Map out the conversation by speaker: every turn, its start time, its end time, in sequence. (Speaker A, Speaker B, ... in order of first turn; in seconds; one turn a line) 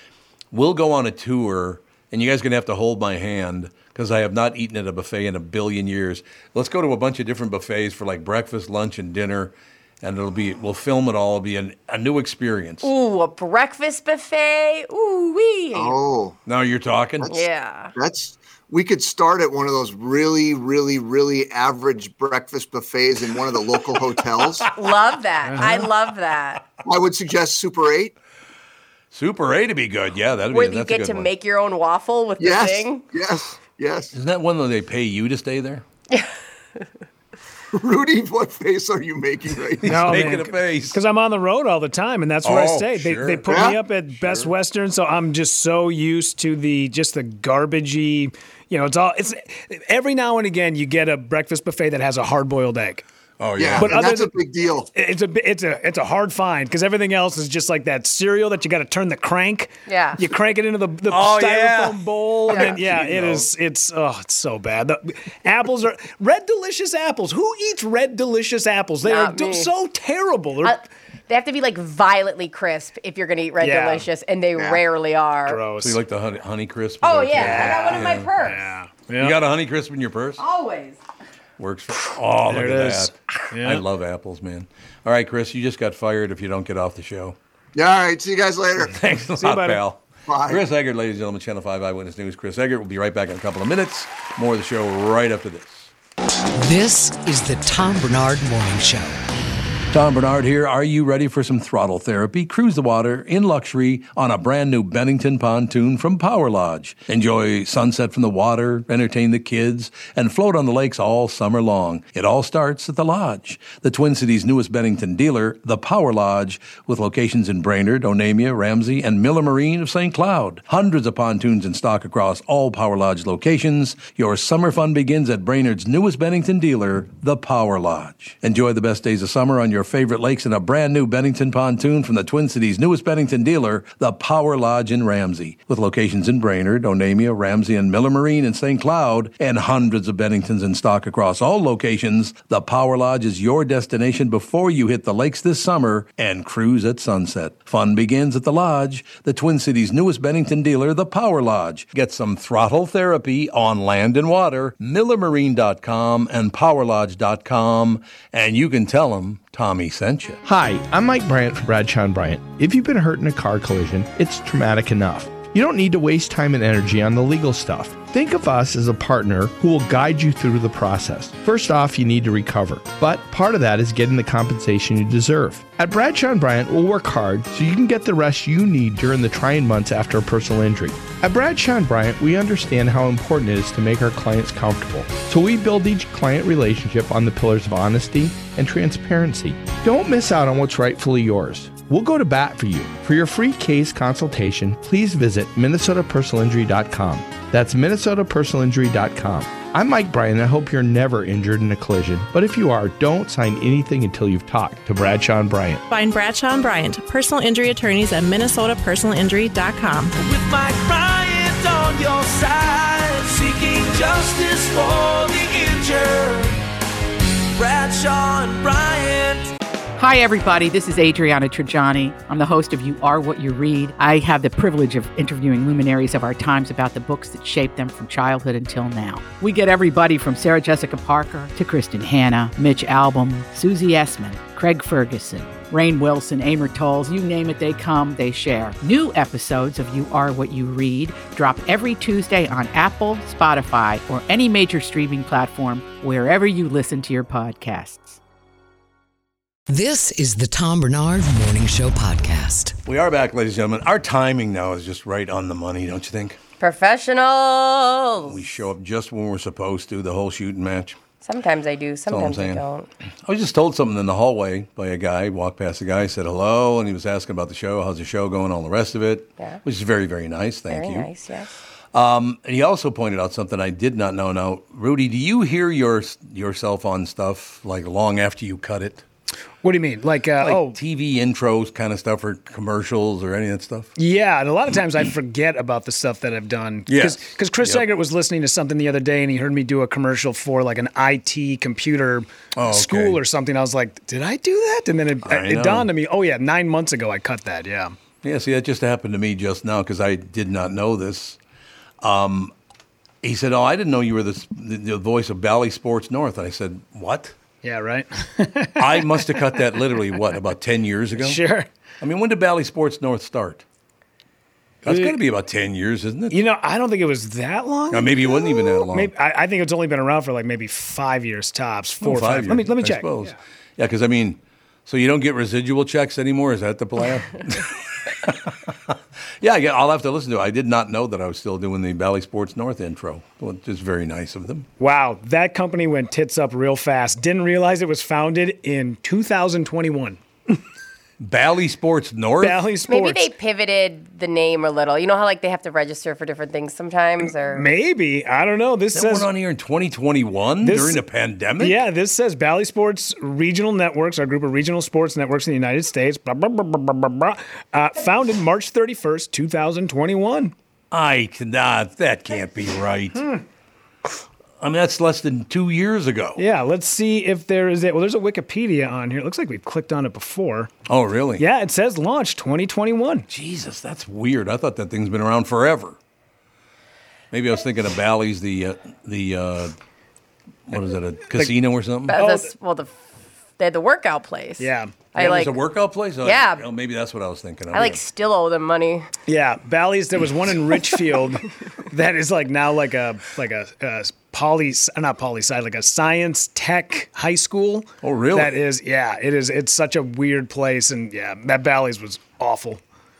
Speaker A: 0.5-12.9
Speaker B: 12.8-15.9
Speaker C: 15.7-16.4
Speaker A: 16.4-17.3
Speaker B: 17.3-17.9
Speaker C: 17.9-24.6
Speaker B: 24.7-26.6
Speaker D: 25.4-25.9
Speaker C: 26.8-28.1
Speaker A: 29.1-31.3
Speaker B: 30.5-33.0
Speaker C: 32.4-34.1
Speaker A: 34.1-35.8
Speaker C: 37.7-40.2
Speaker A: 39.8-41.0
Speaker D: 39.8-53.0
Speaker A: 42.4-44.5
Speaker C: 43.5-43.8
Speaker A: 53.4-54.0
Speaker C: 53.6-54.9
Speaker D: 53.8-54.3
Speaker D: 54.9-70.8
Speaker B: 59.9-60.2
Speaker A: 61.1-63.5
Speaker B: 69.0-69.7
Speaker B: 70.6-75.6
Speaker D: 73.6-74.1
Speaker C: 74.6-74.8
Speaker D: 75.5-76.0
Speaker A: 75.8-78.3
Speaker B: 77.0-78.6
Speaker D: 77.4-79.3
Speaker A: 79.2-80.4
Speaker B: 80.4-81.0
Speaker A: 81.6-87.3
Speaker D: 82.5-83.8
Speaker C: 87.7-88.9
Speaker A: 88.9-95.9
Speaker D: 89.4-89.8
Speaker C: 90.3-90.6
Speaker E: 96.6-99.2
Speaker A: 99.9-160.4
Speaker F: 160.4-205.8
Speaker G: 205.9-210.1
Speaker H: 210.2-216.6
Speaker H: 217.6-219.5
Speaker I: 220.0-248.2
Speaker E: 249.7-252.8
Speaker A: 252.8-256.4
Speaker B: 256.6-258.4
Speaker A: 258.3-261.0
Speaker B: 261.2-262.9
Speaker A: 262.1-262.6
Speaker A: 263.3-271.1
Speaker B: 270.7-271.5
Speaker A: 271.9-279.0
Speaker D: 279.6-280.8
Speaker A: 280.4-283.9
Speaker D: 284.0-297.9
Speaker A: 286.9-287.9
Speaker A: 292.6-293.2
Speaker A: 295.2-295.9
Speaker A: 298.2-301.4
Speaker A: 302.0-302.5
Speaker A: 303.2-307.3
Speaker D: 307.6-309.4
Speaker A: 308.8-311.4
Speaker D: 311.2-311.7
Speaker A: 312.0-313.6
Speaker A: 314.8-316.4
Speaker D: 314.9-315.2
Speaker D: 316.3-323.3
Speaker A: 317.9-319.1
Speaker A: 322.0-334.7
Speaker D: 334.8-340.6
Speaker A: 341.2-342.7
Speaker D: 342.4-343.3
Speaker B: 342.9-347.6
Speaker D: 347.5-349.3
Speaker A: 348.9-351.8
Speaker D: 350.6-351.0
Speaker D: 351.6-360.5
Speaker A: 360.9-363.2
Speaker A: 364.6-366.4
Speaker D: 366.4-370.7
Speaker A: 370.9-371.4
Speaker D: 371.4-373.3
Speaker A: 373.3-376.0
Speaker A: 377.3-379.7
Speaker A: 380.7-382.2
Speaker B: 382.1-382.9
Speaker D: 382.1-382.5
Speaker B: 383.6-385.5
Speaker D: 384.6-385.1
Speaker A: 385.1-388.0
Speaker B: 386.2-386.6
Speaker B: 387.7-389.1
Speaker D: 389.3-402.8
Speaker A: 398.0-398.6